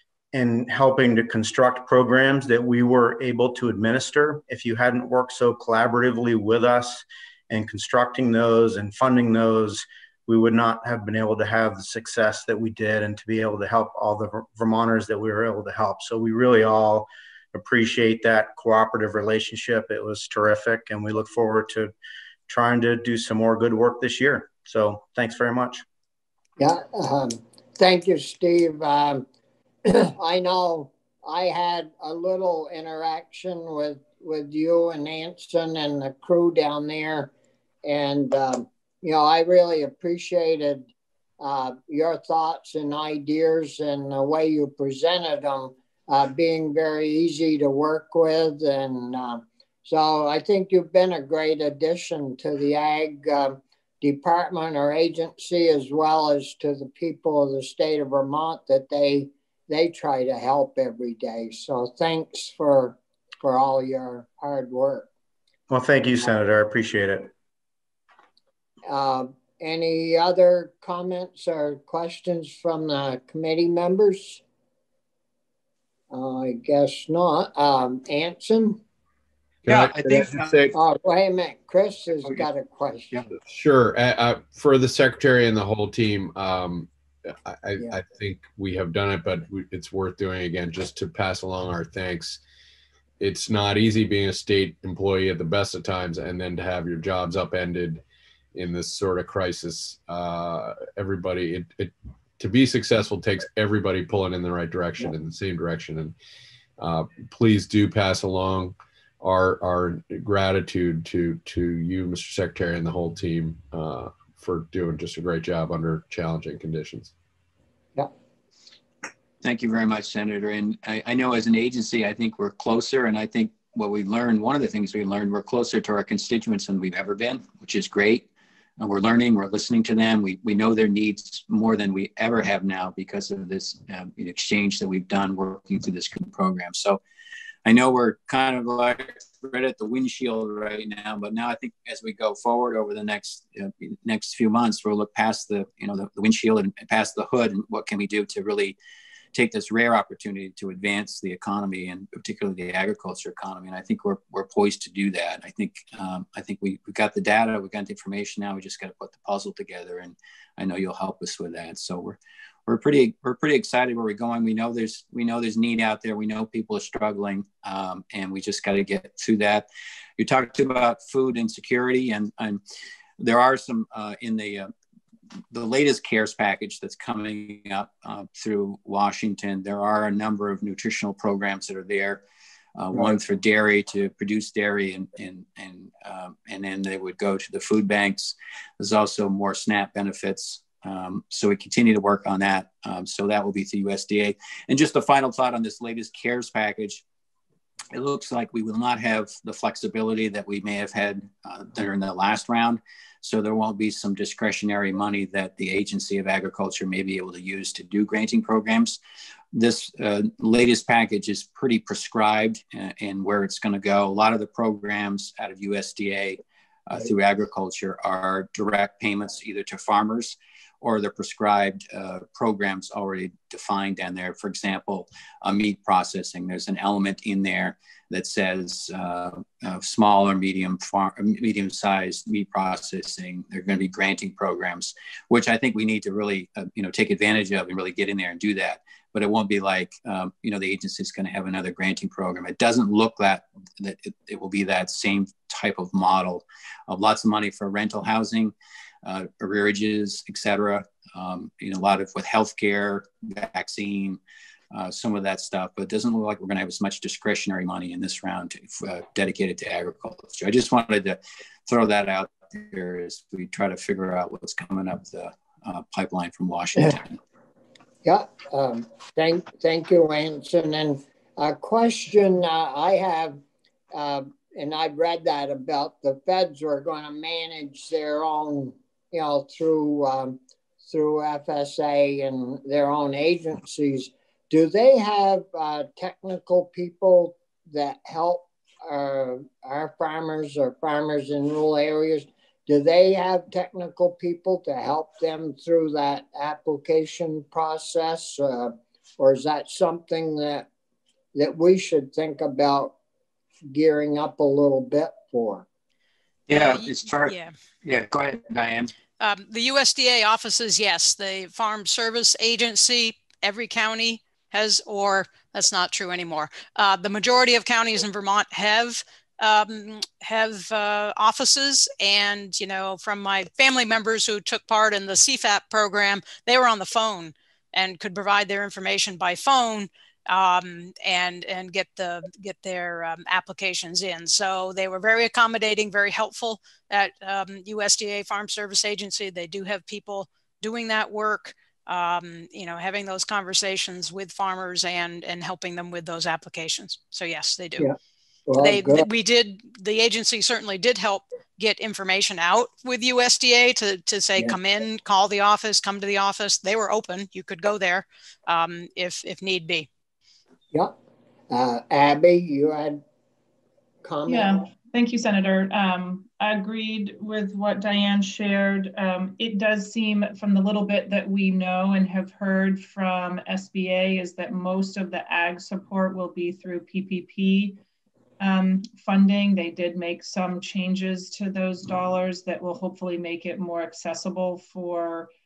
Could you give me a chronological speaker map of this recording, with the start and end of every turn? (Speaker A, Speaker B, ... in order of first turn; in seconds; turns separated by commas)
Speaker A: 0.3-21.9, Speaker A: 22.5-25.8, Speaker B: 26.6-29.2, Speaker B: 29.9-37.3, Speaker B: 37.8-65.1, Speaker A: 65.7-67.3, Speaker B: 68.9-74.4, Speaker B: 76.1-78.8, Speaker C: 79.7-80.7, Speaker D: 79.7-80.6, Speaker B: 80.7-83.1, Speaker C: 83.5-92.4, Speaker C: 93.2-98.0, Speaker C: 98.5-106.2, Speaker C: 106.8-117.1, Speaker D: 119.4-128.3, Speaker D: 128.8-137.0, Speaker D: 137.7-148.8, Speaker D: 149.3-169.7, Speaker D: 170.2-172.6, Speaker D: 173.2-174.7, Speaker D: 175.5-182.2, Speaker D: 182.8-197.0, Speaker D: 197.9-209.0, Speaker D: 209.5-248.5, Speaker D: 249.1-254.2, Speaker D: 254.7-267.2, Speaker B: 268.0-273.4, Speaker B: 273.9-300.7, Speaker B: 301.4-302.9, Speaker B: 303.7-305.7, Speaker D: 306.5-308.9, Speaker E: 306.6-307.5, Speaker E: 309.2-347.9, Speaker B: 348.5-349.1, Speaker E: 348.6-359.9, Speaker B: 361.5-363.0, Speaker B: 364.0-364.7, Speaker F: 364.3-377.8, Speaker F: 378.4-385.3